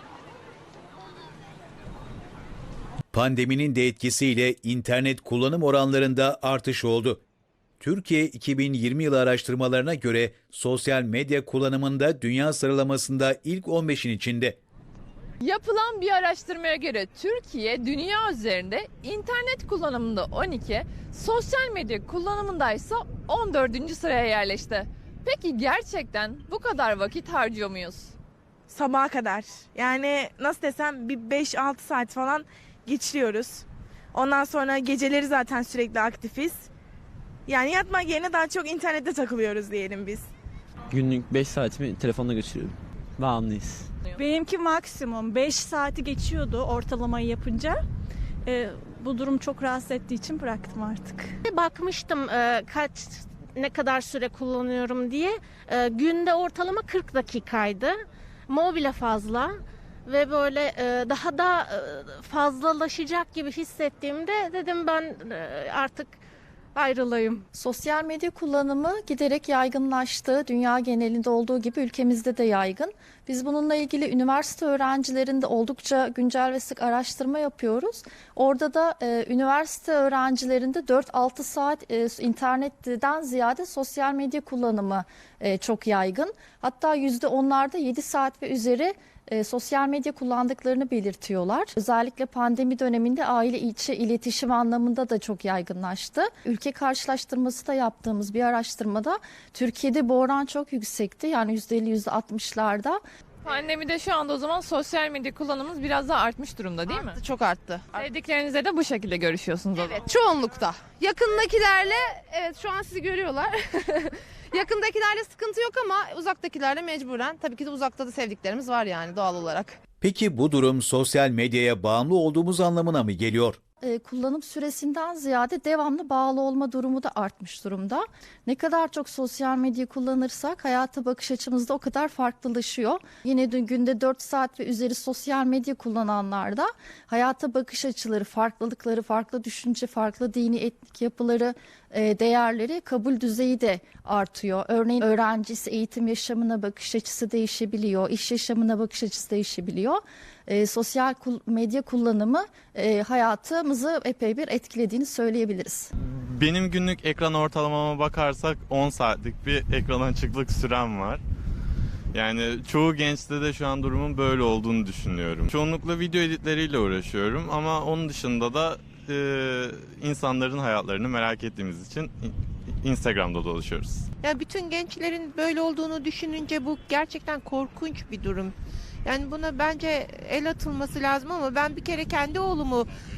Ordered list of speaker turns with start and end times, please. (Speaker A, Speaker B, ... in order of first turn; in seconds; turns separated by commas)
Speaker A: 3.1-7.2, Speaker A: 7.8-14.6, Speaker B: 15.4-28.1, Speaker C: 28.7-36.7, Speaker C: 37.5-40.2, Speaker D: 40.9-43.8, Speaker E: 44.1-47.8, Speaker E: 48.4-51.3, Speaker F: 51.4-58.0, Speaker F: 58.5-59.5, Speaker F: 60.0-66.2, Speaker F: 66.7-67.4, Speaker G: 67.5-103.0, Speaker B: 103.4-107.2, Speaker H: 106.9-108.0, Speaker B: 107.9-110.1, Speaker H: 110.0-119.8, Speaker A: 120.0-123.6, Speaker G: 123.8-155.9, Speaker I: 156.2-161.2, Speaker I: 162.1-174.1, Speaker J: 174.2-178.5, Speaker J: 179.0-182.9